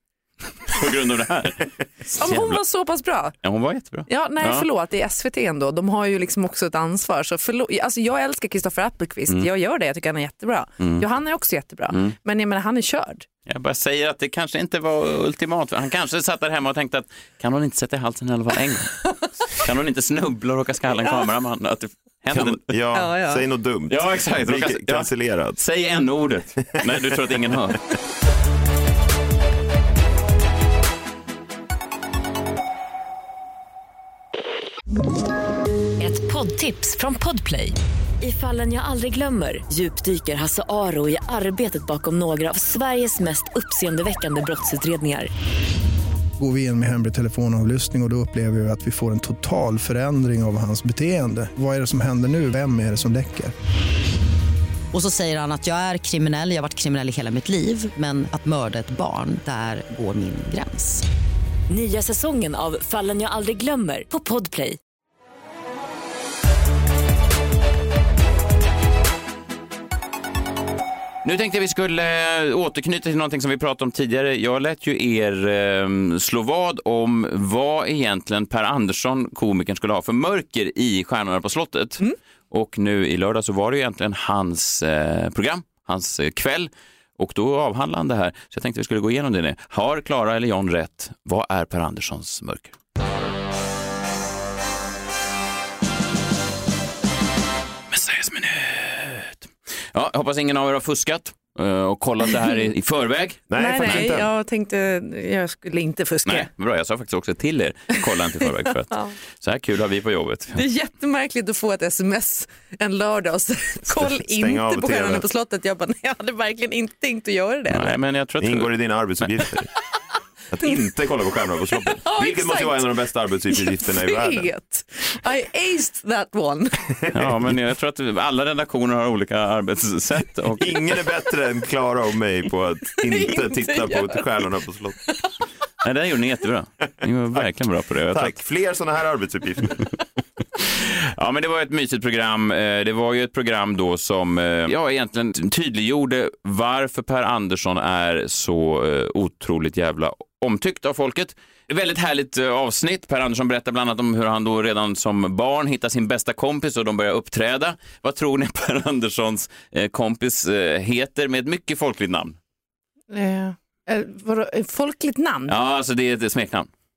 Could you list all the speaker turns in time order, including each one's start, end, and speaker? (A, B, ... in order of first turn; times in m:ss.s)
0:00.6-0:02.6 A
0:02.2-0:03.4 B
0:03.4-0:04.7 A
0:04.1-0:13.3 B
0:10.8-0:11.1 A
0:11.9-0:12.2 A
0:13.5-0:22.7 A
0:21.0-0:21.3 B
0:22.3-0:25.6 C
0:22.9-0:23.4 B
0:23.9-0:27.8 A
0:36.0-0:45.3 D
0:46.4-0:53.5 E
0:54.9-1:01.0 F
1:01.7-1:04.8 D
1:11.2-1:32.8 A
1:37.9-1:44.1 A
1:43.5-1:44.3 C
1:43.6-1:46.5 B
1:46.3-1:50.6 A
1:50.6-1:58.0 B
1:53.9-1:55.2 C
1:57.7-1:59.3 A
1:58.4-1:59.7 C
2:00.5-2:04.5 C
2:01.8-2:03.0 B
2:03.5-2:06.9 B
2:07.1-2:07.4 C
2:07.1-2:10.7 A
2:10.6-2:15.0 C
2:13.1-2:14.3 B
2:15.8-2:18.4 A
2:18.1-2:19.9 C
2:20.7-2:42.4 A
2:43.1-2:45.6 B
2:45.5-2:46.7 A